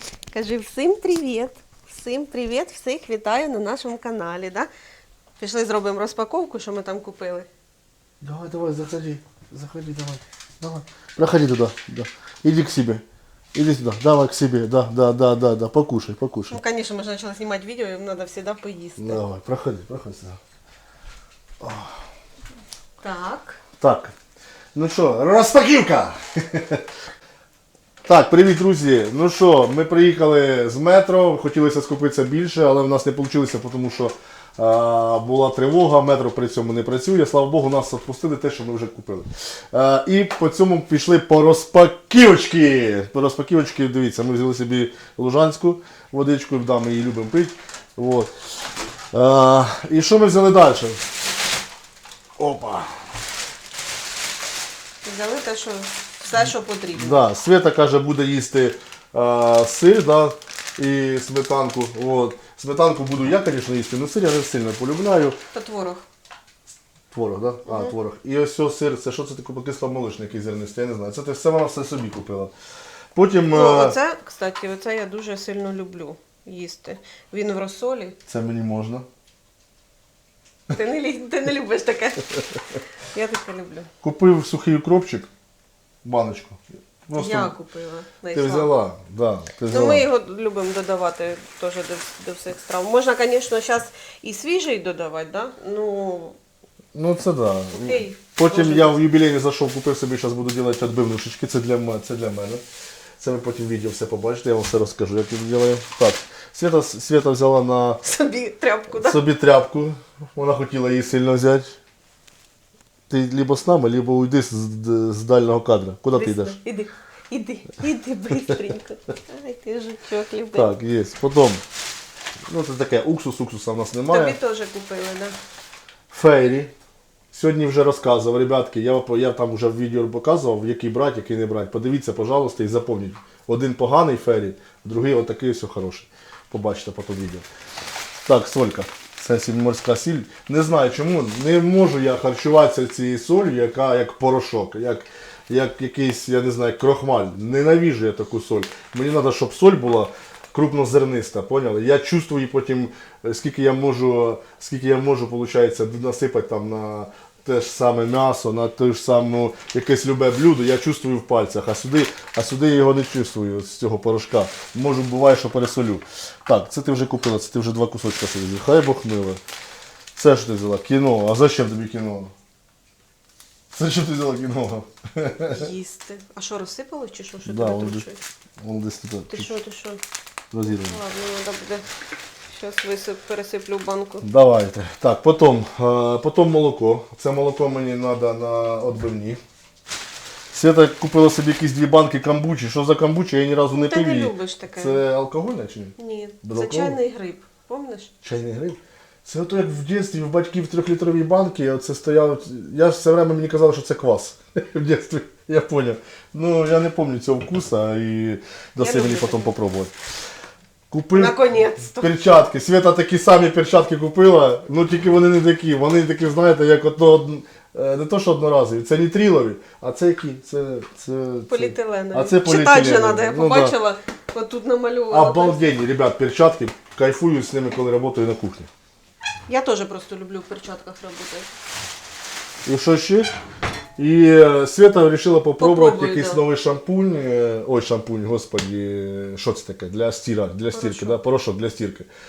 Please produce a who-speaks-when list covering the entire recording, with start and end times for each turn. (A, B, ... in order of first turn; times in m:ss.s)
0:00.3-0:04.7 A
0:05.4-0:07.5 A
0:08.2-0:16.6 B
0:16.5-0:19.2 A
0:19.0-0:20.4 B
0:21.6-0:22.1 B
0:23.0-0:23.6 A
0:23.8-0:24.1 B
0:24.8-0:26.9 B
0:28.1-0:48.3 B
0:49.1-0:51.0 B
0:52.4-0:53.1 B
0:55.0-0:57.2 A
0:57.0-1:05.4 B
1:05.5-1:06.1 A
1:07.1-1:12.5 B
1:07.7-1:07.9 A
1:13.2-1:14.0 B
1:13.5-1:18.2 A
1:18.3-1:19.1 B
1:20.7-1:22.5 A
1:23.0-1:23.9 A
1:24.0-1:25.3 B
1:26.0-1:27.6 B
1:27.1-1:28.7 A
1:28.3-1:30.1 B
1:29.7-1:36.4 A
1:36.9-1:42.6 B
1:37.7-1:39.0 A
1:43.2-1:48.0 B
1:48.0-1:49.2 A
1:48.9-1:51.8 B
1:53.1-1:56.6 B
1:56.1-2:00.7 A
2:00.5-2:01.6 B
2:02.5-2:04.4 B
2:04.1-2:05.4 A
2:06.1-2:06.7 B
2:07.3-2:17.5 B
2:18.2-2:49.4 B
2:50.2-2:52.3 B
2:53.7-2:55.7 B
2:55.5-2:58.2 A
2:57.4-2:58.1 B
2:58.6-2:59.6 B
2:59.3-3:00.0 A
3:00.5-3:01.0 B
3:00.6-3:01.9 A
3:02.5-3:04.3 A
3:04.2-3:09.4 B
3:10.5-3:17.0 B
3:13.7-3:15.0 A
3:16.0-3:18.1 A
3:18.2-3:30.0 B
3:28.8-3:29.5 A
3:30.9-3:43.8 B
3:31.1-3:32.1 A
3:41.5-3:45.7 A
3:45.1-3:48.7 B
3:49.5-3:51.5 A
3:52.6-3:53.3 B
3:54.0-4:02.1 B
3:55.6-3:56.4 A
4:00.7-4:01.2 A